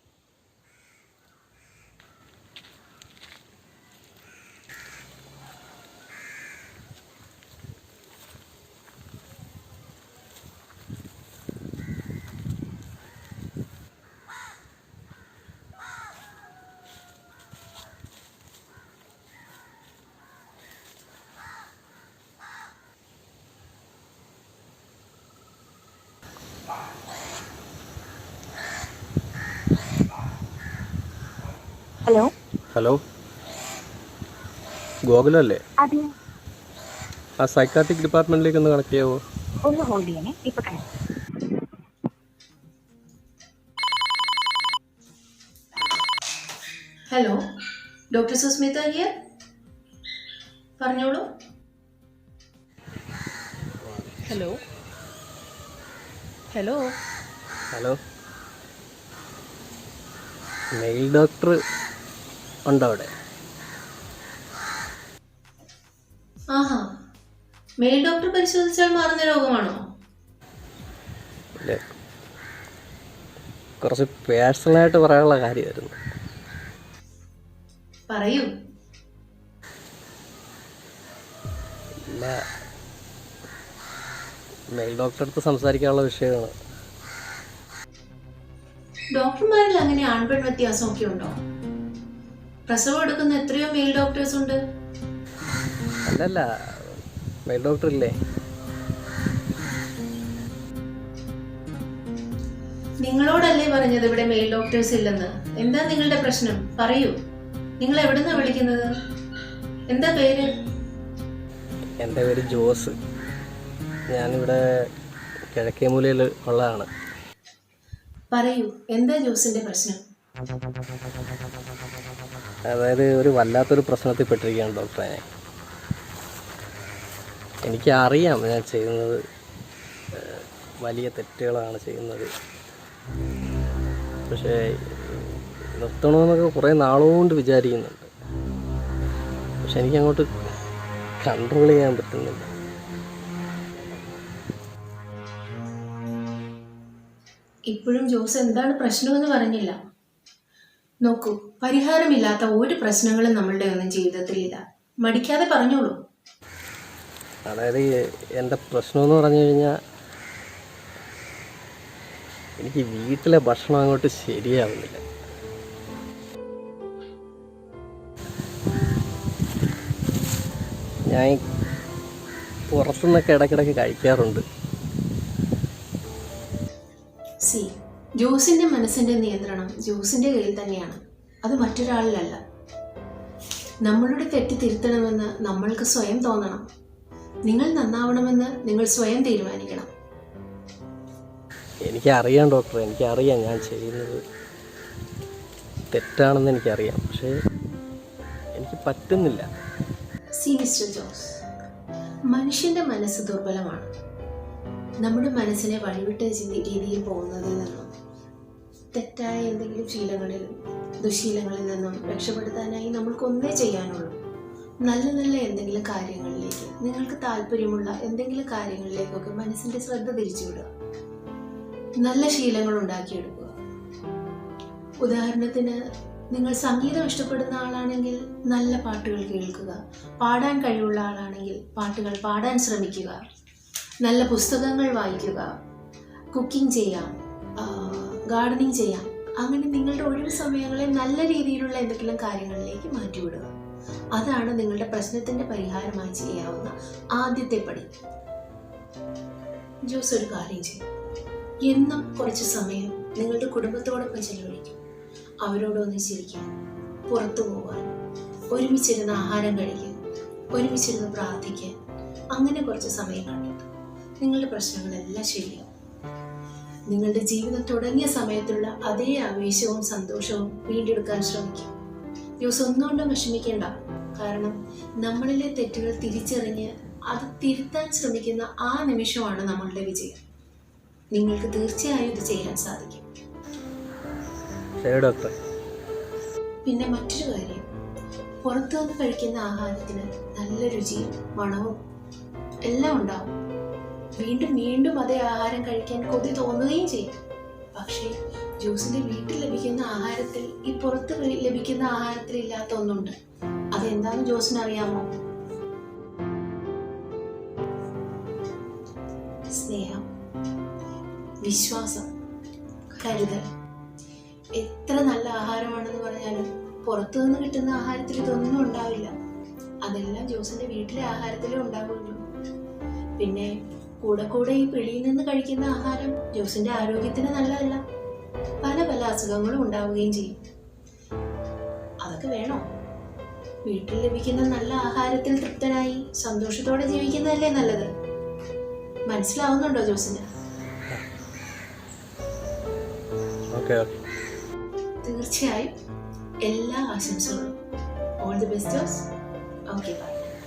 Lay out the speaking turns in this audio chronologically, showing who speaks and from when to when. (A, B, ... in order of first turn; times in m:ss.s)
0:32.1-0:32.3 A
0:32.7-0:33.0 B
0:35.1-0:35.6 B
0:35.8-0:36.1 A
0:37.4-0:39.2 B
0:39.6-0:40.8 A
0:47.1-0:47.4 C
0:48.1-0:49.1 C
0:50.8-0:51.3 C
0:54.1-0:54.6 C
0:56.5-0:56.9 C
0:57.7-0:58.0 B
1:00.8-1:01.6 B
1:02.7-1:03.1 B
1:06.5-1:06.9 C
1:07.8-1:09.8 C
1:11.6-1:12.0 B
1:13.8-1:16.0 B
1:18.1-1:18.5 C
1:22.0-1:22.4 B
1:24.7-1:26.5 B
1:29.2-1:31.3 C
1:32.7-1:34.6 C
1:36.1-1:38.2 B
1:43.0-1:47.2 C
1:47.8-1:48.9 C
1:49.9-1:50.5 C
1:52.0-1:52.9 B
1:54.1-1:54.6 B
1:55.5-1:56.9 B
1:58.3-2:00.0 C
2:02.7-2:05.2 B
2:07.6-2:09.2 B
2:10.1-2:12.3 B
2:14.3-2:18.1 B
2:19.6-2:20.3 B
2:21.2-2:22.5 B
2:27.7-2:29.8 C
2:31.1-2:36.0 C
2:37.5-2:37.9 B
2:38.4-2:39.7 B
2:42.6-2:45.0 B
2:51.1-2:51.4 B
2:52.7-2:54.4 B
2:57.4-3:02.4 C
3:03.9-3:06.6 C
3:07.5-3:09.9 C
3:11.9-3:14.2 B
3:15.9-3:17.3 B
3:18.6-3:19.5 B
3:20.4-3:21.4 C
3:22.3-3:23.9 C
3:25.0-3:27.9 C
3:28.9-3:34.2 C
3:34.8-3:40.7 C
3:42.0-3:43.5 C
3:45.0-3:45.8 C
3:46.3-3:53.2 C
3:54.0-3:55.5 C
3:56.3-4:03.5 C
4:04.2-4:07.9 C
4:09.9-4:10.8 C
4:11.7-4:14.8 C
4:15.4-4:16.5 C
4:17.1-4:17.9 C
4:18.6-4:20.0 C
4:20.6-4:21.7 C
4:22.3-4:23.7 C
4:24.2-4:25.7 C
4:26.9-4:31.7 C
4:32.4-4:40.2 C
4:41.2-4:43.0 C
4:44.8-4:45.4 B
4:46.7-4:47.6 C
4:48.4-4:51.8 C
4:52.7-4:53.3 C
4:54.2-4:57.2 C
4:57.8-5:03.2 C
5:03.8-5:05.1 C
5:09.5-5:10.1 C
5:11.4-5:12.1 C
5:13.0-5:13.4 C
5:14.6-5:19.1 C
5:19.8-5:22.2 C
5:23.2-5:27.8 C
5:28.6-5:30.3 C
5:32.0-5:32.6 C
5:33.7-5:37.9 C
5:39.1-5:40.3 C
5:43.5-5:43.9 B
5:45.0-5:45.7 C
5:46.5-5:47.6 C
5:48.2-5:49.0 C
5:49.7-5:50.3 C